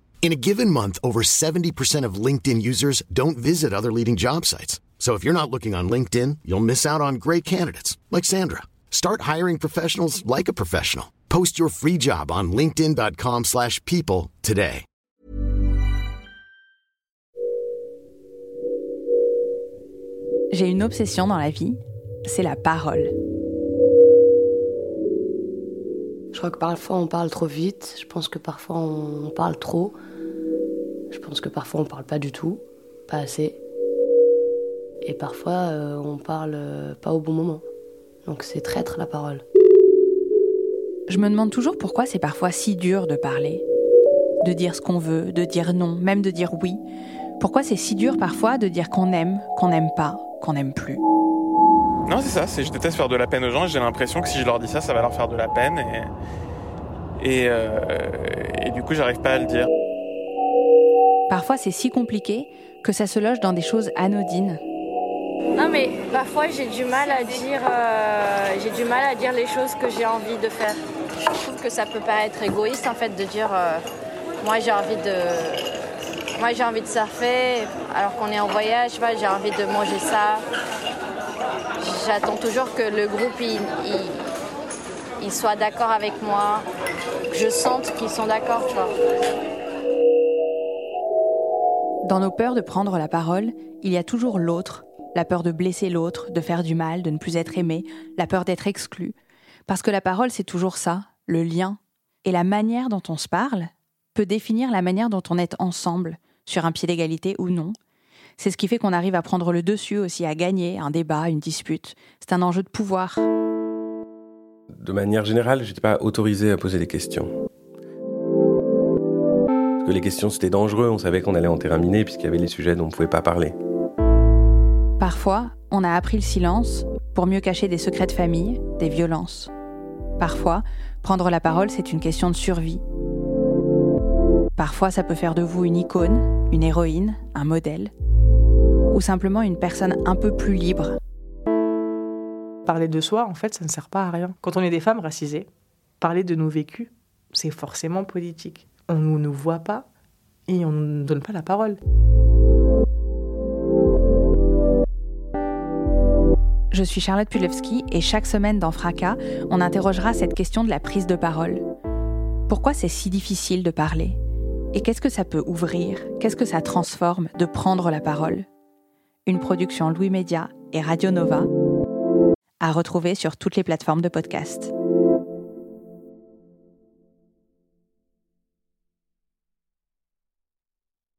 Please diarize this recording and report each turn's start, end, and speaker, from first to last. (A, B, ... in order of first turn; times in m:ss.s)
0:00.2-0:14.8 A
0:20.5-0:23.1 B
0:26.3-0:30.0 C
0:31.1-0:33.6 C
0:35.0-0:37.6 C
0:38.2-0:39.4 C
0:41.1-0:43.6 B
0:44.4-0:46.8 B
0:47.4-0:51.0 B
0:52.1-0:56.1 D
0:57.2-0:59.7 D
1:01.3-1:04.6 B
1:05.6-1:10.8 E
1:11.4-1:13.8 E
1:14.4-1:20.4 E
1:21.8-1:24.2 E
1:25.2-1:26.6 E
1:27.3-1:28.9 E
1:32.0-1:39.1 B
1:39.7-1:47.8 B
1:48.4-1:53.2 B
1:54.8-1:57.3 F
1:59.8-2:03.6 F
2:05.0-2:09.5 B
2:10.2-2:12.8 B
2:14.6-2:17.9 B
2:18.9-2:21.0 B
2:22.6-2:25.4 G
2:26.0-2:29.8 G
2:30.5-2:31.8 G
2:36.7-2:41.6 B
2:42.5-2:44.2 B
2:44.7-2:48.5 B
2:49.2-2:51.5 B
2:52.6-2:54.7 B